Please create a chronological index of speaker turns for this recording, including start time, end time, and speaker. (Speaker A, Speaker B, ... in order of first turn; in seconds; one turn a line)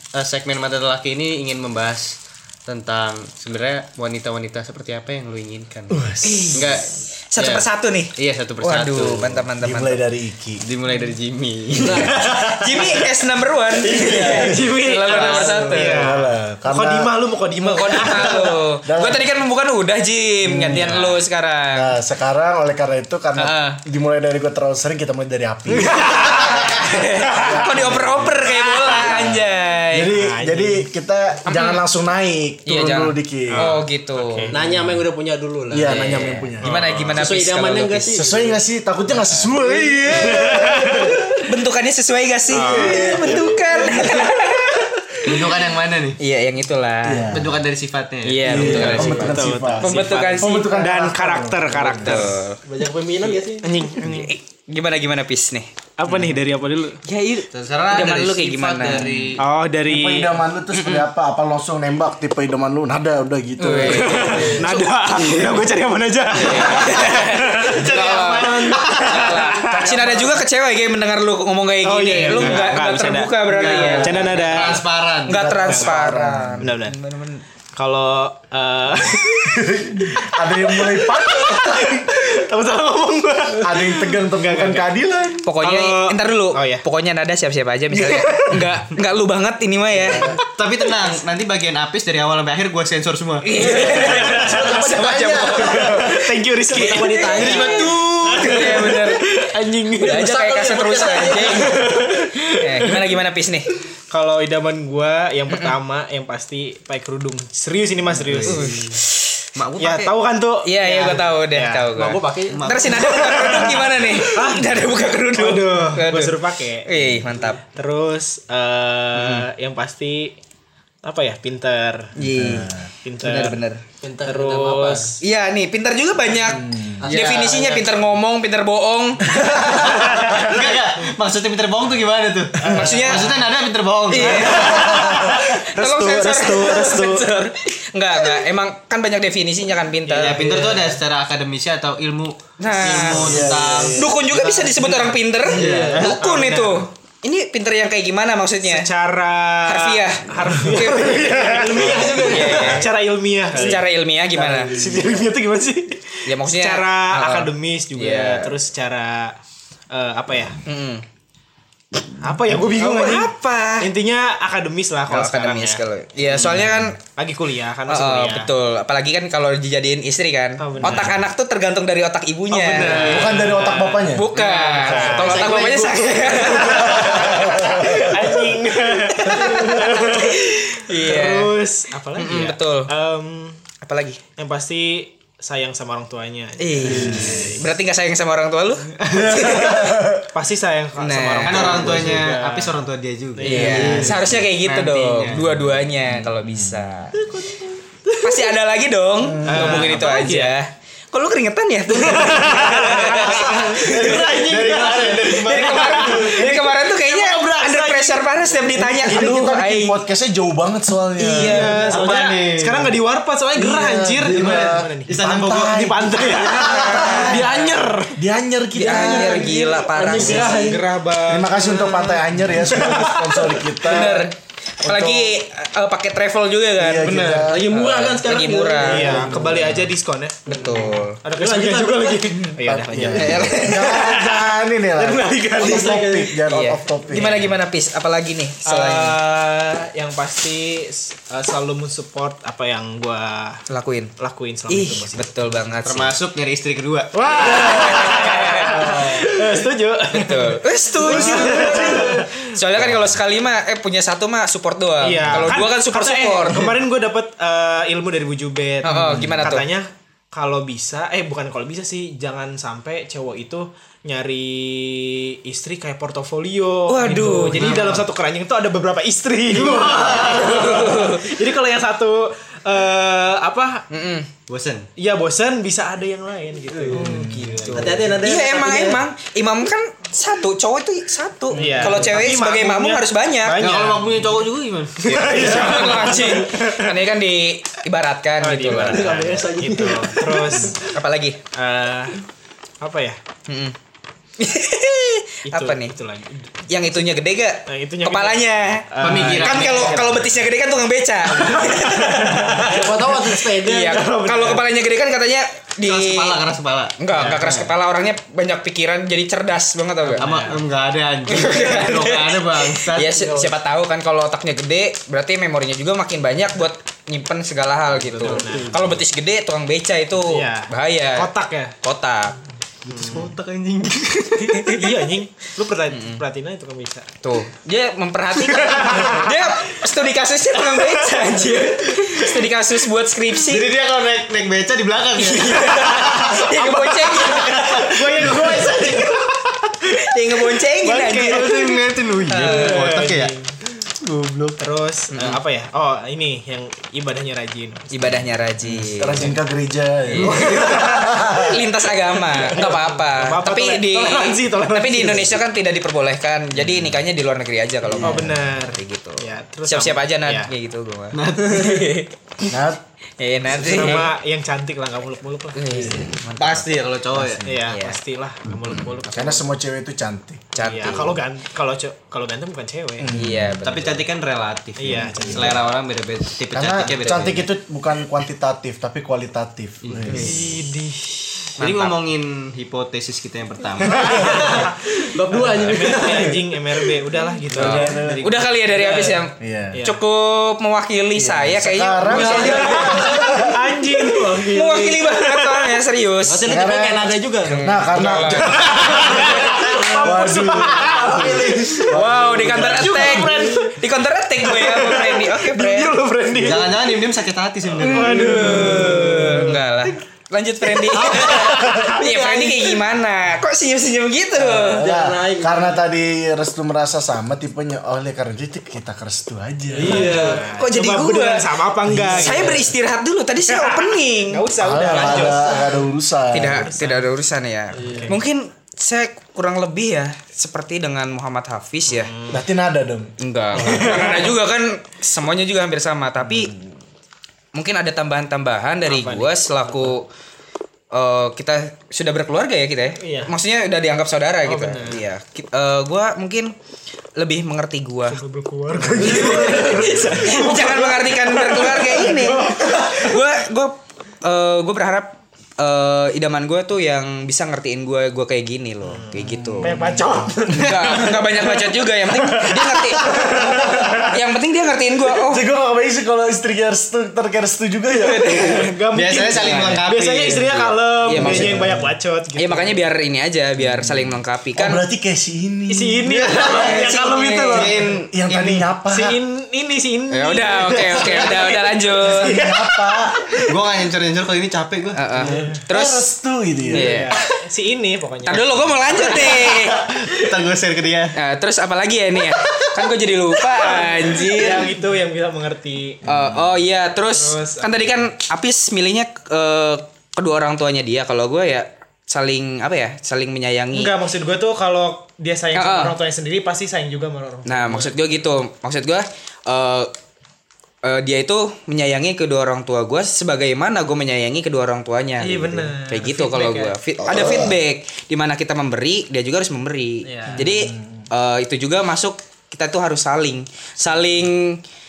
Speaker A: 0.1-6.0
Speaker B: 5.9-6.7
Speaker C: 6.2-10.0
Speaker A: 6.5-7.7
Speaker A: 8.2-9.5
Speaker B: 9.6-10.6
Speaker A: 10.6-12.4
Speaker D: 11.8-12.4
Speaker B: 12.2-12.8
Speaker C: 12.4-16.2
Speaker D: 13.8-15.8
Speaker A: 14.0-14.4
Speaker E: 14.2-18.6
Speaker B: 15.8-17.1
Speaker C: 17.6-21.9
Speaker B: 18.0-19.2
Speaker B: 20.4-21.2
Speaker B: 21.8-33.7
Speaker C: 23.4-23.8
Speaker E: 25.7-26.7
Speaker C: 25.9-30.1
Speaker E: 27.3-27.6
Speaker E: 28.7-29.0
Speaker E: 30.1-30.9
Speaker C: 31.5-31.8
Speaker C: 32.7-34.5
Speaker E: 33.5-34.7
Speaker D: 34.5-36.0
Speaker B: 35.7-36.9
Speaker C: 35.8-38.2
Speaker E: 36.6-37.3
Speaker D: 37.1-38.3
Speaker B: 38.1-41.3
Speaker E: 40.2-41.1
Speaker C: 41.4-44.9
Speaker E: 42.5-43.4
Speaker D: 42.6-44.1
Speaker A: 45.2-46.2
Speaker C: 46.2-47.3
Speaker B: 47.0-47.6
Speaker A: 47.3-49.3
Speaker C: 48.2-50.7
Speaker B: 48.4-52.4
Speaker D: 48.6-49.3
Speaker E: 48.9-52.4
Speaker C: 51.7-52.6
Speaker D: 52.6-53.7
Speaker E: 53.6-54.3
Speaker C: 54.0-55.7
Speaker E: 56.0-57.0
Speaker C: 57.1-59.4
Speaker A: 57.5-59.4
Speaker E: 59.4-60.4
Speaker B: 59.9-64.6
Speaker C: 60.7-61.1
Speaker C: 63.6-65.6
Speaker E: 63.8-70.0
Speaker C: 66.3-77.4
Speaker A: 67.7-69.5
Speaker B: 69.8-70.4
Speaker E: 71.8-74.9
Speaker A: 72.2-72.7
Speaker A: 73.4-75.6
Speaker B: 75.3-76.7
Speaker E: 75.7-75.9
Speaker E: 76.6-77.0
Speaker E: 77.8-84.8
Speaker B: 79.6-82.1
Speaker B: 83.6-85.5
Speaker C: 85.5-90.3
Speaker E: 85.6-86.8
Speaker E: 88.0-88.7
Speaker A: 90.5-93.7
Speaker C: 93.4-96.2
Speaker E: 93.6-100.2
Speaker D: 93.7-95.7
Speaker D: 96.7-98.1
Speaker C: 96.8-97.8
Speaker A: 97.3-98.7
Speaker C: 98.4-99.5
Speaker D: 100.0-101.9
Speaker C: 100.0-103.7
Speaker E: 101.7-103.0
Speaker E: 104.1-108.8
Speaker C: 105.5-105.8
Speaker A: 108.2-108.6
Speaker C: 108.4-109.2
Speaker A: 109.6-110.1
Speaker E: 109.8-111.9
Speaker C: 110.7-117.6
Speaker D: 111.9-112.7
Speaker A: 112.5-113.9
Speaker E: 113.1-114.8
Speaker E: 115.3-116.9
Speaker E: 117.6-120.4
Speaker C: 119.2-119.4
Speaker E: 121.0-122.1
Speaker C: 122.2-123.8
Speaker B: 122.3-122.9
Speaker E: 123.0-123.6
Speaker D: 124.0-125.2
Speaker E: 124.3-125.2
Speaker C: 125.2-129.4
Speaker B: 126.5-127.0
Speaker D: 127.0-127.9
Speaker B: 129.3-129.8
Speaker A: 129.6-135.0
Speaker E: 130.1-130.4
Speaker C: 132.7-133.4
Speaker E: 132.7-133.3
Speaker C: 134.1-140.5
Speaker E: 134.1-137.3
Speaker B: 134.7-135.3
Speaker E: 140.1-141.0
Speaker A: 140.1-146.2
Speaker C: 142.6-148.9
Speaker B: 143.0-144.2
Speaker E: 145.5-146.8
Speaker E: 148.6-159.3
Speaker C: 149.7-152.9
Speaker D: 151.0-152.9
Speaker C: 153.5-154.8
Speaker C: 156.3-158.5
Speaker E: 159.9-160.6
Speaker C: 160.7-161.0
Speaker E: 162.2-165.8
Speaker C: 162.8-163.9
Speaker C: 165.1-167.0
Speaker E: 167.1-168.5
Speaker C: 167.9-173.4
Speaker E: 170.6-171.2
Speaker E: 172.5-175.5
Speaker B: 173.0-174.3
Speaker C: 174.1-178.1
Speaker D: 174.8-177.2
Speaker E: 176.4-183.6
Speaker C: 179.1-181.6
Speaker C: 182.2-182.9
Speaker C: 183.8-184.2
Speaker E: 184.4-187.6
Speaker C: 186.6-190.2
Speaker B: 186.8-187.6
Speaker E: 189.1-192.8
Speaker C: 191.0-192.1
Speaker A: 191.4-195.6
Speaker E: 193.4-194.3
Speaker C: 193.4-197.2
Speaker B: 196.4-196.8
Speaker E: 197.2-198.5
Speaker C: 198.2-204.2
Speaker B: 199.2-199.8
Speaker E: 199.4-200.6
Speaker E: 201.9-208.8
Speaker A: 203.1-206.5
Speaker C: 205.2-210.0
Speaker B: 208.8-211.8
Speaker C: 211.2-212.0
Speaker E: 211.3-215.2
Speaker A: 211.8-212.9
Speaker B: 213.6-217.5
Speaker A: 214.2-215.9
Speaker E: 215.7-218.1
Speaker C: 216.5-217.4
Speaker D: 217.2-218.1
Speaker B: 218.1-219.8
Speaker C: 218.7-220.7
Speaker D: 219.0-220.9
Speaker E: 220.1-223.7
Speaker B: 221.3-224.3
Speaker C: 223.8-229.2
Speaker B: 224.8-225.4
Speaker B: 226.8-227.7
Speaker E: 227.1-227.4
Speaker D: 227.1-229.6
Speaker E: 228.8-236.3
Speaker B: 229.2-229.7
Speaker C: 230.5-231.2
Speaker D: 231.4-233.5
Speaker B: 232.7-237.5
Speaker C: 233.2-233.9
Speaker D: 235.6-236.3
Speaker C: 236.5-239.2
Speaker E: 238.7-243.6
Speaker C: 243.7-244.1
Speaker E: 244.2-245.3
Speaker C: 244.7-246.2
Speaker A: 245.8-248.8
Speaker E: 247.1-252.5
Speaker C: 247.4-249.3
Speaker C: 250.1-256.8
Speaker E: 255.0-273.9
Speaker C: 258.8-259.7
Speaker B: 259.0-259.4
Speaker C: 266.9-268.1
Speaker A: 269.6-270.2
Speaker C: 270.1-271.3
Speaker C: 273.9-274.3
Speaker A: 274.5-274.9
Speaker E: 275.0-278.2
Speaker A: 276.9-278.1
Speaker D: 277.7-279.0
Speaker C: 278.2-283.6
Speaker E: 281.5-284.3
Speaker A: 283.6-286.2
Speaker E: 285.1-286.9
Speaker C: 285.1-289.2
Speaker E: 288.4-290.9
Speaker D: 288.7-290.7
Speaker C: 290.6-291.4
Speaker E: 291.5-292.2
Speaker E: 292.8-293.2
Speaker C: 293.5-293.7
Speaker C: 294.4-295.9
Speaker E: 295.5-296.6
Speaker C: 296.7-302.9
Speaker E: 297.7-300.2
Speaker A: 299.0-300.2
Speaker E: 301.3-304.6
Speaker D: 302.6-304.4
Speaker C: 303.6-306.4
Speaker A: 305.9-307.5
Speaker C: 307.0-310.3
Speaker E: 307.1-307.6
Speaker E: 310.0-310.6
Speaker A: 310.2-313.4
Speaker C: 311.3-321.3
Speaker E: 317.9-319.0
Speaker A: 318.1-318.6
Speaker E: 320.2-321.8
Speaker C: 321.8-322.4
Speaker A: 322.9-324.8
Speaker E: 322.9-323.3
Speaker C: 324.5-324.8
Speaker E: 324.6-327.1
Speaker C: 325.9-326.2
Speaker C: 327.2-333.7
Speaker E: 328.4-329.5
Speaker E: 330.6-331.6
Speaker A: 333.4-336.4
Speaker C: 335.2-338.4
Speaker E: 335.5-339.7
Speaker A: 337.3-339.0
Speaker C: 340.0-342.9
Speaker A: 340.8-343.4
Speaker E: 341.3-341.8
Speaker E: 342.3-343.5
Speaker A: 344.0-344.6
Speaker E: 344.6-348.3
Speaker C: 345.1-345.4
Speaker C: 347.9-349.4
Speaker B: 348.7-351.7
Speaker C: 350.1-362.5
Speaker E: 350.2-351.1
Speaker E: 352.3-355.4
Speaker B: 357.9-358.4
Speaker E: 358.0-360.5
Speaker A: 361.1-362.0
Speaker B: 362.5-362.8
Speaker C: 363.2-364.1
Speaker E: 363.5-366.0
Speaker C: 365.6-368.0
Speaker A: 366.4-367.5
Speaker E: 367.4-369.5
Speaker B: 369.1-370.5
Speaker C: 370.6-371.2
Speaker E: 370.6-373.1
Speaker B: 373.0-373.6
Speaker C: 373.1-374.1
Speaker A: 373.6-377.5
Speaker E: 374.8-375.7
Speaker B: 376.5-380.4
Speaker A: 379.8-380.5
Speaker E: 380.1-381.5
Speaker A: 381.6-384.7
Speaker C: 381.6-382.0
Speaker E: 383.9-388.2
Speaker D: 385.1-386.2
Speaker B: 385.4-386.4
Speaker B: 387.6-388.2
Speaker A: 387.6-388.4
Speaker C: 387.6-393.1
Speaker D: 388.8-389.2
Speaker B: 389.4-389.8
Speaker E: 389.7-390.0
Speaker B: 391.1-393.6
Speaker E: 392.1-395.7
Speaker D: 392.1-393.2
Speaker C: 394.4-396.4
Speaker D: 396.2-397.7
Speaker B: 396.4-403.2
Speaker C: 397.5-399.5
Speaker E: 398.1-403.8
Speaker D: 401.0-401.6
Speaker C: 401.9-406.0
Speaker E: 404.4-407.0
Speaker A: 406.4-408.4
Speaker E: 407.8-409.9
Speaker C: 408.2-414.9
Speaker E: 410.7-412.8
Speaker D: 414.4-415.8
Speaker B: 414.8-420.3
Speaker D: 419.7-420.4
Speaker E: 419.8-422.7
Speaker C: 419.9-425.6
Speaker B: 421.9-422.4
Speaker E: 423.5-425.9
Speaker B: 424.6-426.7
Speaker C: 426.3-432.1
Speaker E: 426.5-427.1
Speaker E: 427.7-428.2
Speaker D: 427.8-428.1
Speaker E: 431.9-432.4
Speaker B: 432.3-434.1
Speaker C: 433.2-436.5
Speaker E: 433.6-434.4
Speaker C: 437.5-440.1
Speaker E: 438.9-440.0
Speaker C: 440.9-446.5
Speaker E: 443.0-443.3
Speaker E: 444.5-445.1
Speaker C: 447.2-448.2
Speaker E: 448.1-453.2
Speaker C: 448.9-459.8
Speaker E: 458.8-464.1
Speaker C: 460.5-465.5
Speaker B: 463.4-464.1
Speaker B: 465.2-468.7
Speaker C: 467.9-468.7
Speaker E: 468.3-472.8
Speaker A: 468.9-470.7
Speaker C: 469.3-469.8
Speaker C: 471.1-471.7
Speaker B: 471.1-471.9
Speaker C: 472.4-474.8
Speaker B: 474.6-476.8
Speaker E: 475.7-477.8
Speaker A: 476.1-476.8
Speaker C: 476.5-477.7
Speaker A: 477.5-478.7
Speaker B: 477.8-479.2
Speaker E: 478.9-483.4
Speaker C: 480.1-482.4
Speaker B: 482.0-483.3
Speaker A: 483.4-485.1
Speaker C: 484.9-486.1
Speaker B: 485.2-487.0
Speaker C: 486.7-487.2
Speaker E: 486.7-489.3
Speaker C: 488.3-489.9
Speaker A: 489.0-491.1
Speaker C: 491.1-494.7
Speaker E: 493.6-496.0
Speaker C: 496.1-503.9
Speaker E: 497.1-497.9
Speaker E: 503.7-507.9
Speaker C: 505.5-505.9
Speaker C: 507.5-509.9
Speaker C: 510.8-524.6
Speaker E: 515.2-516.8
Speaker B: 517.1-517.5
Speaker E: 520.0-520.5